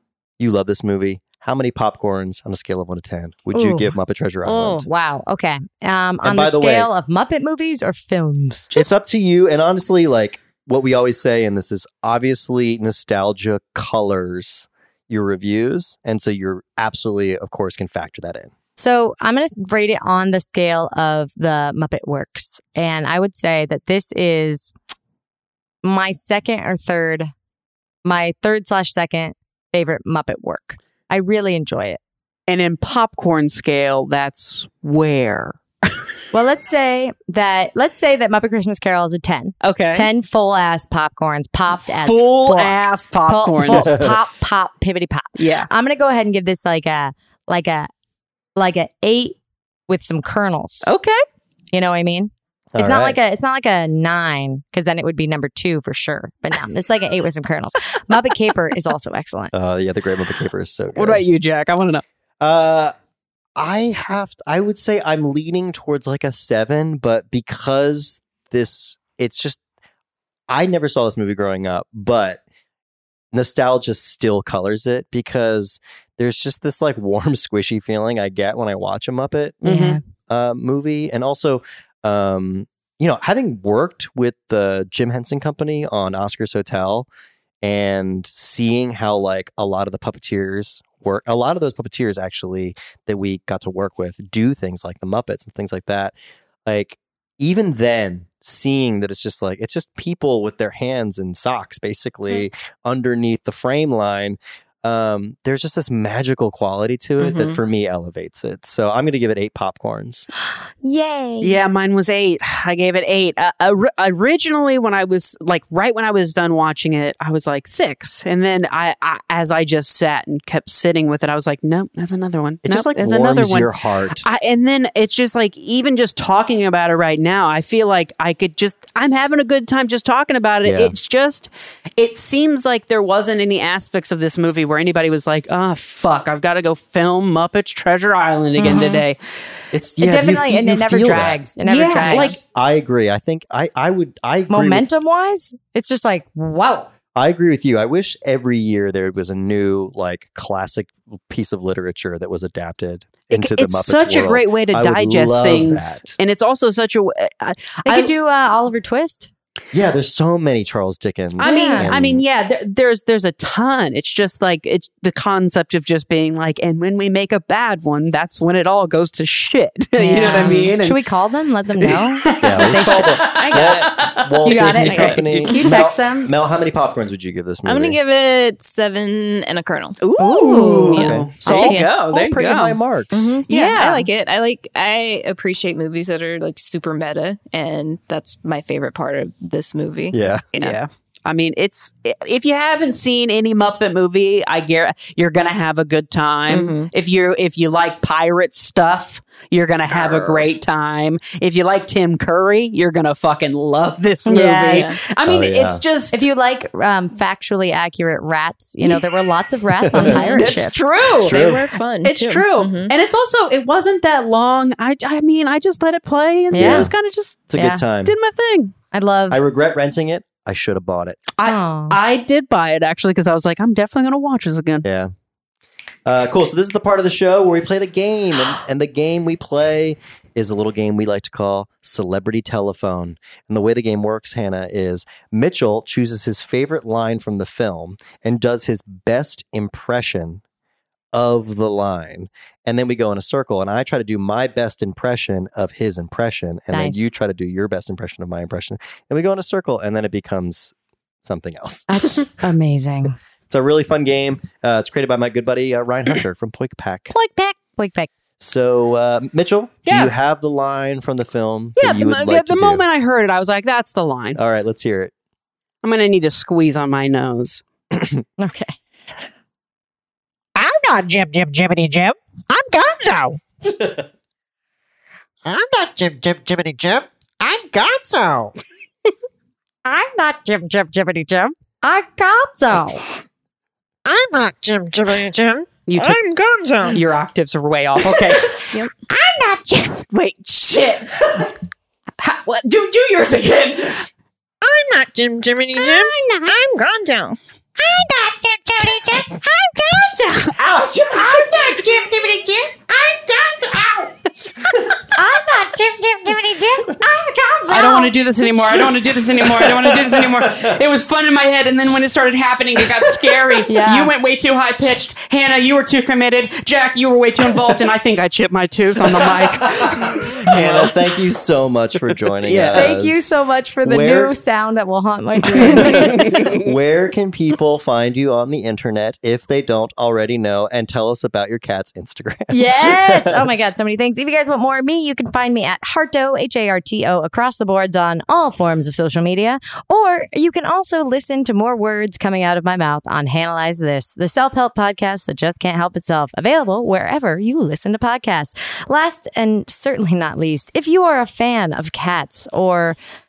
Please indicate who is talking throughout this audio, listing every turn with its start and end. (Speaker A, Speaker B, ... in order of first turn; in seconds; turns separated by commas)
Speaker A: 0.4-4.8, Speaker B: 3.5-8.9, Speaker A: 6.2-6.9, Speaker A: 8.7-18.5, Speaker B: 18.8-24.7, Speaker B: 25.8-27.3, Speaker B: 28.0-32.0, Speaker C: 32.5-36.0, Speaker B: 36.3-47.9, Speaker C: 39.6-40.1, Speaker C: 41.8-43.9, Speaker A: 43.7-44.2, Speaker C: 45.4-45.7, Speaker B: 48.5-49.4, Speaker B: 49.9-50.9, Speaker C: 50.8-51.2, Speaker B: 51.7-59.5, Speaker A: 52.7-53.2, Speaker A: 59.5-61.2, Speaker C: 60.9-62.0, Speaker A: 62.4-62.9, Speaker A: 63.6-69.6, Speaker A: 70.5-72.4, Speaker A: 73.3-79.6, Speaker B: 79.6-80.0, Speaker C: 79.6-80.0, Speaker A: 80.3-87.1, Speaker A: 87.6-96.1, Speaker A: 96.7-110.3, Speaker D: 107.2-107.6, Speaker B: 110.8-111.6, Speaker C: 111.4-139.2, Speaker A: 122.6-124.2, Speaker A: 130.6-130.9, Speaker B: 138.6-139.0, Speaker A: 139.7-141.4, Speaker B: 140.0-142.4, Speaker C: 141.6-142.4, Speaker A: 142.1-144.8, Speaker B: 144.5-146.9, Speaker A: 147.1-156.1, Speaker C: 153.3-158.1, Speaker B: 157.8-159.3, Speaker A: 159.7-162.2, Speaker C: 161.4-171.0, Speaker B: 161.4-161.9, Speaker B: 170.0-173.4, Speaker C: 171.8-175.9, Speaker A: 172.4-178.0, Speaker D: 173.3-173.9, Speaker B: 174.4-176.3, Speaker D: 174.7-175.2, Speaker D: 177.7-180.0, Speaker C: 180.0-182.8, Speaker B: 180.2-181.1, Speaker A: 180.5-183.3, Speaker D: 180.7-181.9, Speaker D: 183.1-190.8, Speaker C: 183.5-184.1, Speaker A: 190.1-190.4, Speaker C: 190.6-206.2, Speaker D: 196.5-196.9, Speaker B: 204.3-204.9, Speaker D: 204.7-205.0, Speaker A: 205.2-205.8, Speaker B: 206.1-210.9, Speaker A: 209.8-210.5, Speaker C: 210.0-217.5, Speaker D: 210.1-210.5, Speaker D: 211.1-212.9, Speaker A: 211.1-211.7, Speaker B: 216.5-216.9, Speaker A: 216.5-216.9, Speaker A: 217.5-218.1, Speaker B: 217.5-217.8, Speaker C: 218.0-218.7, Speaker B: 218.9-219.4, Speaker A: 219.3-221.3, Speaker C: 221.4-224.8, Speaker B: 221.4-222.0, Speaker A: 224.8-225.1, Speaker A: 226.1-240.4, Speaker A: 241.1-252.2, Speaker B: 246.7-247.0, Speaker B: 251.9-253.2, Speaker A: 253.5-257.1, Speaker B: 257.1-258.1, Speaker A: 258.4-262.8, Speaker C: 259.9-260.1, Speaker C: 261.8-264.4, Speaker A: 264.3-265.1, Speaker C: 265.8-267.6, Speaker A: 267.9-268.2, Speaker B: 268.4-268.7, Speaker E: 270.6-273.4, Speaker A: 273.7-274.0, Speaker E: 275.4-278.5, Speaker B: 279.9-283.0, Speaker E: 284.0-287.0, Speaker C: 285.9-286.2, Speaker C: 286.9-288.7, Speaker B: 289.1-289.9, Speaker C: 290.0-291.5, Speaker C: 292.2-294.1, Speaker E: 294.6-297.4, Speaker B: 295.8-296.5, Speaker B: 297.8-299.2, Speaker E: 298.4-300.2, Speaker B: 299.9-300.4, Speaker C: 300.4-301.8, Speaker E: 301.2-304.1, Speaker B: 301.7-302.4, Speaker B: 305.1-308.1, Speaker C: 307.7-321.0, Speaker A: 309.3-310.8, Speaker B: 313.7-314.1, Speaker A: 319.1-323.3, Speaker C: 322.4-323.0, Speaker B: 322.7-326.2, Speaker A: 323.8-324.3, Speaker C: 325.5-326.6, Speaker A: 325.6-333.5, Speaker B: 332.5-353.0